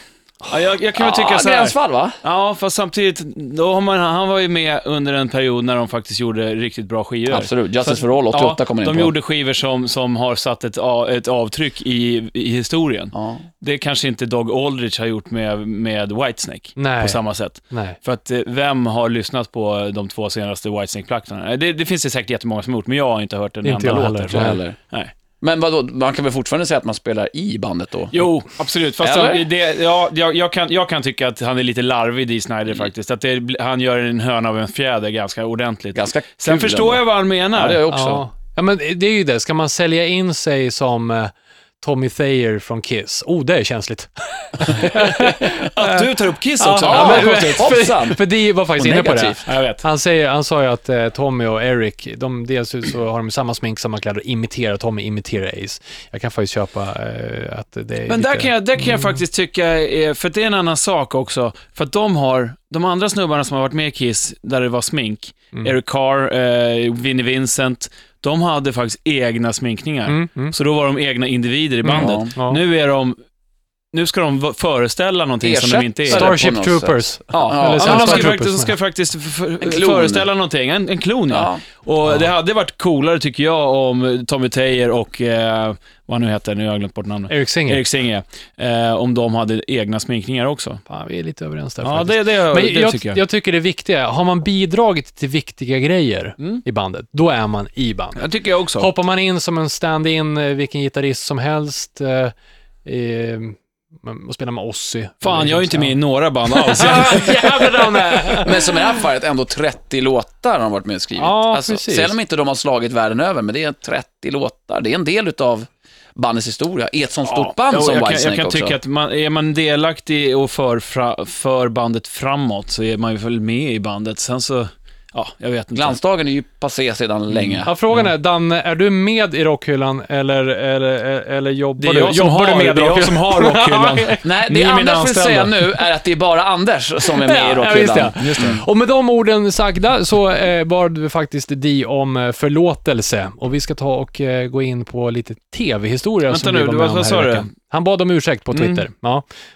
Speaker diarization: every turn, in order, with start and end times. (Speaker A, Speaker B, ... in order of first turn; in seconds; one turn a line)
Speaker A: 0.5-25.1
Speaker B: 1.0-2.2
Speaker B: 7.3-9.1
Speaker B: 13.1-13.4
Speaker C: 16.8-17.2
Speaker C: 17.7-18.0
Speaker C: 23.6-24.6
Speaker B: 24.3-24.8
Speaker B: 25.4-28.2
Speaker A: 28.1-37.8
Speaker B: 29.0-29.5
Speaker B: 36.0-38.2
Speaker C: 37.9-46.1
Speaker A: 45.8-47.8
Speaker C: 46.6-59.0
Speaker B: 46.8-49.4
Speaker A: 49.5-49.8
Speaker A: 58.1-73.2
Speaker C: 70.1-70.5
Speaker C: 71.8-72.6
Speaker B: 71.9-72.3
Speaker A: 73.9-76.3
Speaker B: 75.4-78.3
Speaker C: 76.1-78.7
Speaker A: 77.3-90.8
Speaker B: 79.6-80.3
Speaker B: 81.3-81.6
Speaker C: 87.3-87.8
Speaker C: 90.9-98.2
Speaker A: 91.8-93.2
Speaker A: 98.2-98.9
Speaker C: 98.8-102.3
Speaker C: 102.8-108.5
Speaker A: 105.2-108.5
Speaker B: 108.4-118.8
Speaker C: 111.2-112.2
Speaker A: 117.2-126.0
Speaker B: 125.8-127.7
Speaker A: 127.3-128.1
Speaker C: 127.6-134.2
Speaker A: 131.8-135.6
Speaker B: 134.2-138.6
Speaker C: 137.1-149.2
Speaker A: 138.2-138.6
Speaker A: 146.3-147.5
Speaker A: 148.5-148.8